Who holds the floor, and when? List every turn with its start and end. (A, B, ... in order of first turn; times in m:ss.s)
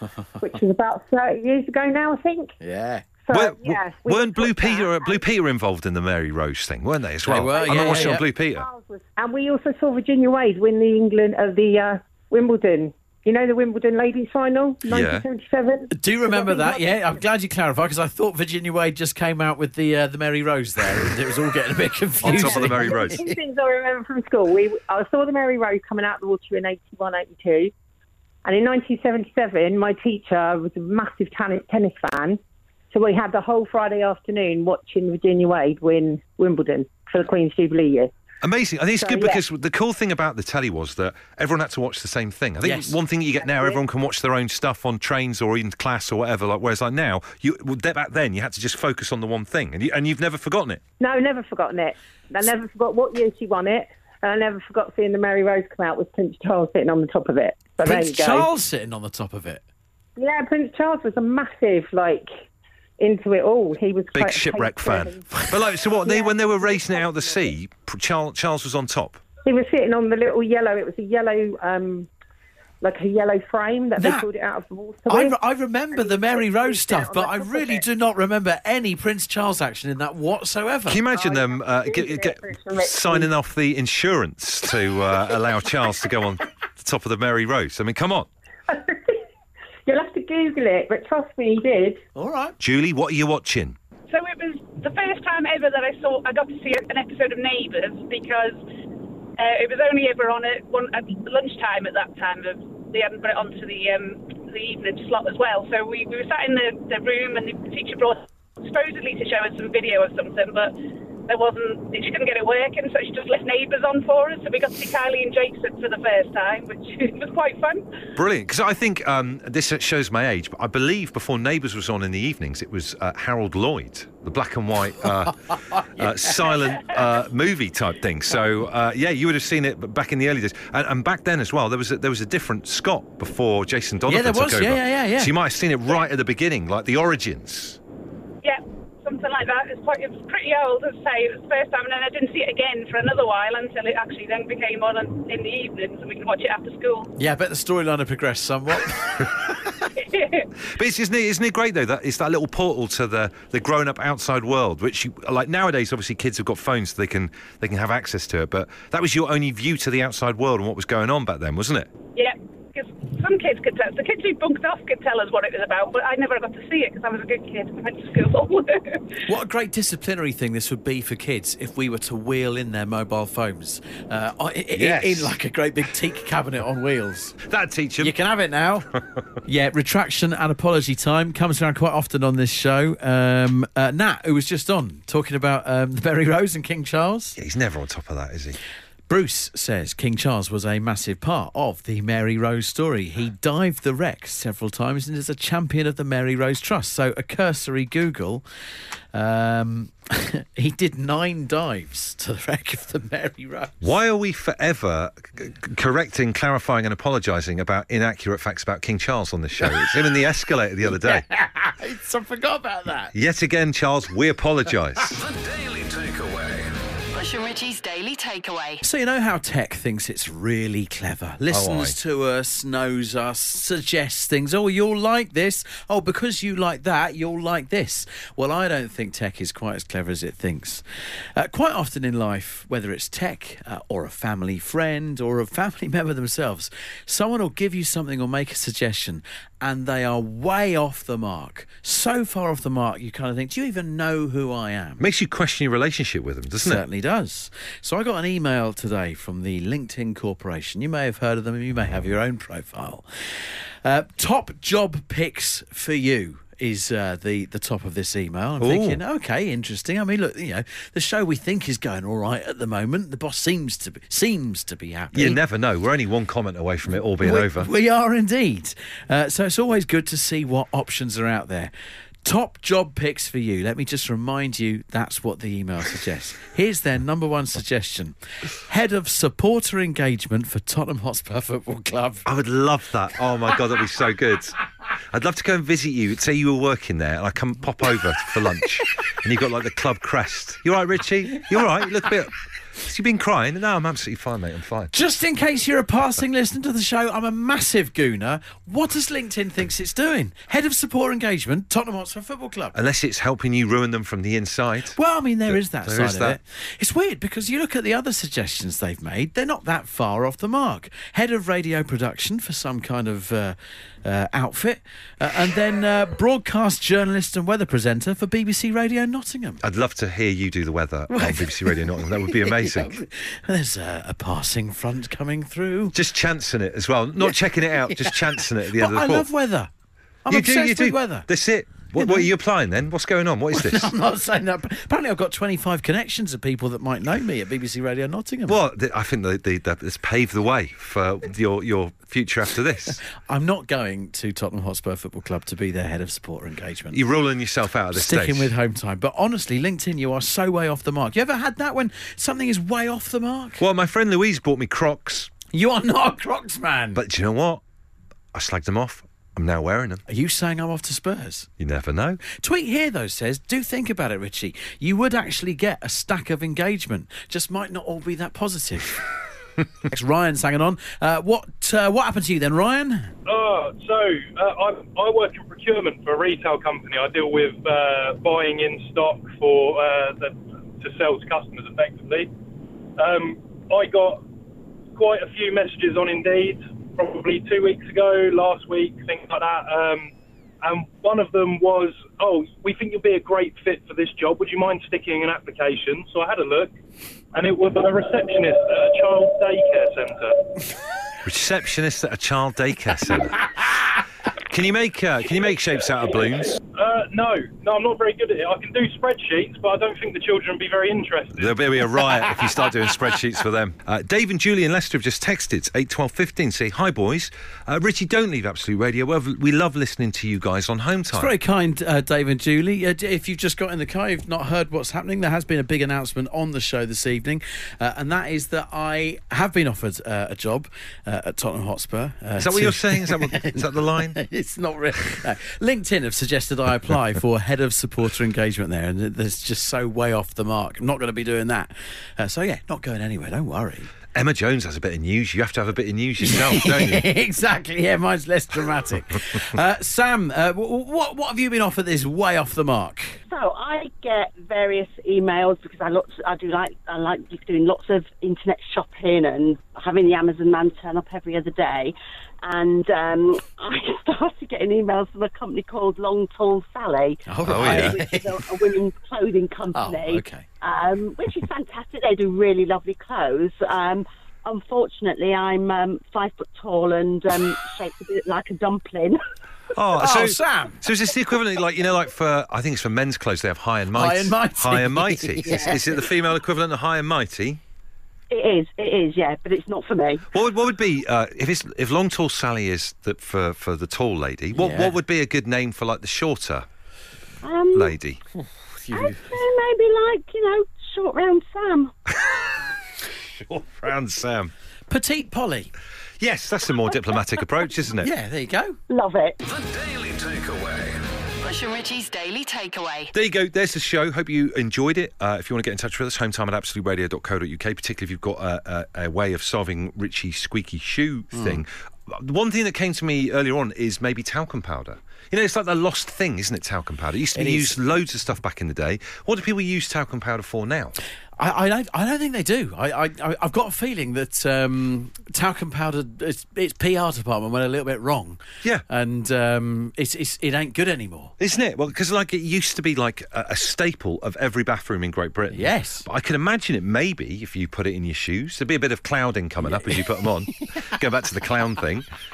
0:00.4-0:02.5 A
0:02.6-0:03.0 B
0:03.3-0:05.2 A
0:03.3-0:08.7 C
0:07.2-0:08.3 B
0:07.6-0:16.9 A
0:14.9-0:15.3 C
0:15.9-0:23.4 B
0:22.2-0:23.2 C
0:22.2-0:27.7 A
0:28.4-0:32.4 A
0:32.9-0:38.1 A
0:38.4-0:50.8 C
0:39.0-0:39.4 A
0:42.6-0:42.9 B
0:51.0-0:58.5 A
0:57.8-0:59.6 B
1:00.2-1:02.3 A
1:03.0-1:05.4 A
1:04.1-1:09.2 C
1:06.0-1:07.5 A
1:09.4-1:12.1 A
1:12.8-1:15.4 A
1:14.0-1:14.3 B
1:15.1-1:21.0 B
1:15.9-1:17.8 A
1:20.9-1:28.3 C
1:21.1-1:23.3 A
1:28.7-1:29.2 A
1:29.9-1:32.0 A
1:32.2-1:32.6 B
1:32.6-1:33.8 C
1:34.1-1:38.6 D
1:39.4-1:50.8 D
1:51.3-1:57.8 D
1:58.2-2:17.8 C
2:14.1-2:15.3 B
2:18.4-2:27.1 D
2:27.2-2:29.5 B
2:30.0-2:30.5 D
2:30.7-2:41.9 C
2:42.2-2:49.1 D
2:49.3-2:57.4 B
2:54.7-2:55.4 C
2:57.4-2:58.2 C
2:58.0-2:58.9 B
2:59.4-3:07.4 B
3:07.4-3:08.6 C
3:09.1-3:18.4 B
3:19.1-3:23.9 B
3:23.8-3:31.3 C
3:30.9-3:33.1 B
3:33.1-3:35.2 C
3:35.2-3:36.7 E
3:37.1-3:38.8 F
3:38.8-3:50.8 B
3:41.5-3:42.0 C
3:51.4-4:05.0 B
4:05.0-4:06.8 C
4:06.6-4:13.0 B
4:13.8-4:25.4 B
4:18.6-4:19.0 C
4:25.1-4:27.7 C
4:27.2-4:31.7 B
4:32.2-4:42.2 B
4:42.3-4:44.6 C
4:45.1-4:54.9 C
4:54.9-5:02.7 B
5:02.7-5:06.4 C
5:04.9-5:19.6 B
5:19.6-5:23.0 C
5:21.1-5:25.9 B
5:25.9-5:29.3 C
5:27.2-5:29.7 B
5:30.3-5:31.3 B
5:30.3-5:33.9 C
5:32.0-5:32.3 B
5:33.5-5:38.6 B
5:38.5-5:43.0 C
5:43.3-5:47.0 B
5:46.9-5:48.5 C
5:47.9-5:53.6 B
5:53.6-5:55.3 C
5:55.5-5:57.0 B
5:57.0-5:57.6 C
5:58.3-6:00.0 C
6:00.1-6:01.5 B
6:01.6-6:02.2 C
6:02.4-6:09.0 B
6:09.8-6:13.1 B
6:13.3-6:22.3 G
6:23.0-6:24.2 G
6:25.0-6:30.1 G
6:30.6-6:36.7 G
6:37.3-6:40.3 G
6:41.2-6:43.4 C
6:44.4-6:46.6 C
6:46.8-6:51.6 G
6:51.4-7:01.3 C
7:01.1-7:23.9 B
7:12.4-7:14.2 C
7:24.1-7:27.1 C
7:26.2-7:33.2 B
7:33.3-7:59.2 H
7:47.3-7:48.8 B
7:47.4-7:48.0 C
7:49.7-7:50.5 B
7:59.8-8:07.6 C
8:00.0-8:00.8 B
8:03.9-8:05.8 B
8:08.3-8:10.3 H
8:10.3-8:16.7 C
8:14.6-8:15.0 B
8:17.4-8:18.0 H
8:17.7-8:18.2 C
8:18.8-8:19.2 B
8:18.9-8:22.0 H
8:23.4-8:24.5 C
8:24.9-8:25.7 B
8:26.2-8:28.1 C
8:28.0-8:28.8 B
8:28.9-8:29.4 H
8:29.4-8:31.0 E
8:31.4-8:33.1 F
8:33.1-8:51.0 C
8:41.4-8:41.6 B
8:47.4-8:47.8 B
8:51.4-9:01.3 B
9:01.4-9:12.1 C
9:05.5-9:06.1 B